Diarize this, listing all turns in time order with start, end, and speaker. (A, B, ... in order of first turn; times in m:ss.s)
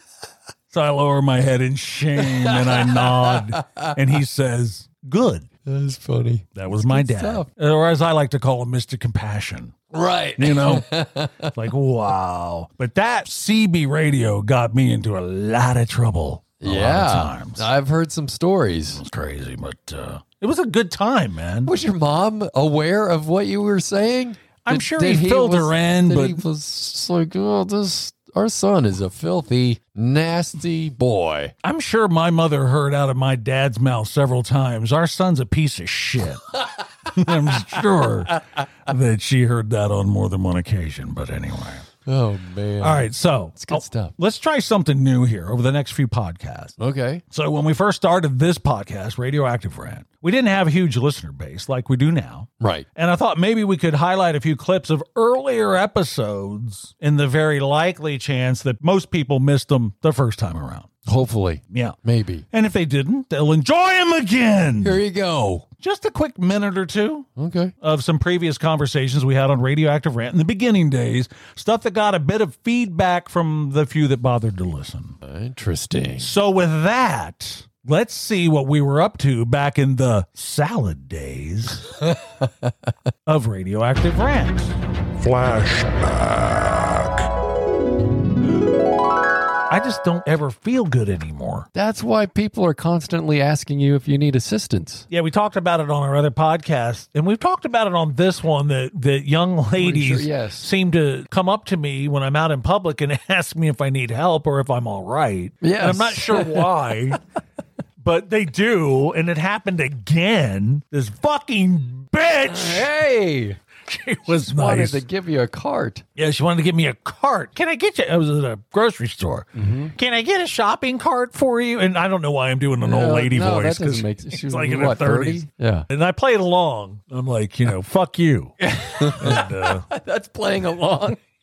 0:00.7-0:05.5 A
0:02.2-0:03.9 B
0:05.6-0:07.5 B
0:06.6-0:09.7 A
0:09.9-0:11.5 B
0:10.4-0:17.7 A
0:16.6-0:19.0 B
0:18.9-0:21.7 A
0:21.6-0:31.5 B
0:24.6-0:26.4 A
0:31.6-0:41.8 A
0:42.0-0:44.1 B
0:42.8-0:46.7 A
0:46.8-0:47.2 B
0:47.3-1:00.9 A
0:52.6-0:52.8 B
1:01.0-1:02.4 B
1:01.7-1:02.0 A
1:02.5-1:05.0 A
1:04.8-1:05.6 B
1:05.8-1:07.3 A
1:07.4-1:07.7 B
1:07.8-1:15.2 A
1:15.2-1:16.3 B
1:16.2-1:21.9 A
1:22.1-1:22.7 B
1:23.2-1:27.3 A
1:29.7-1:31.7 A
1:31.7-1:35.0 B
1:35.1-1:47.2 A
1:39.8-1:40.7 B
1:45.6-1:46.7 B
1:48.0-1:52.9 A
1:52.5-1:53.6 B
1:53.9-1:55.0 A
1:54.3-1:56.0 B
1:56.2-2:09.8 A
1:59.5-1:59.9 B
2:02.8-2:05.8 B
2:08.6-2:11.2 B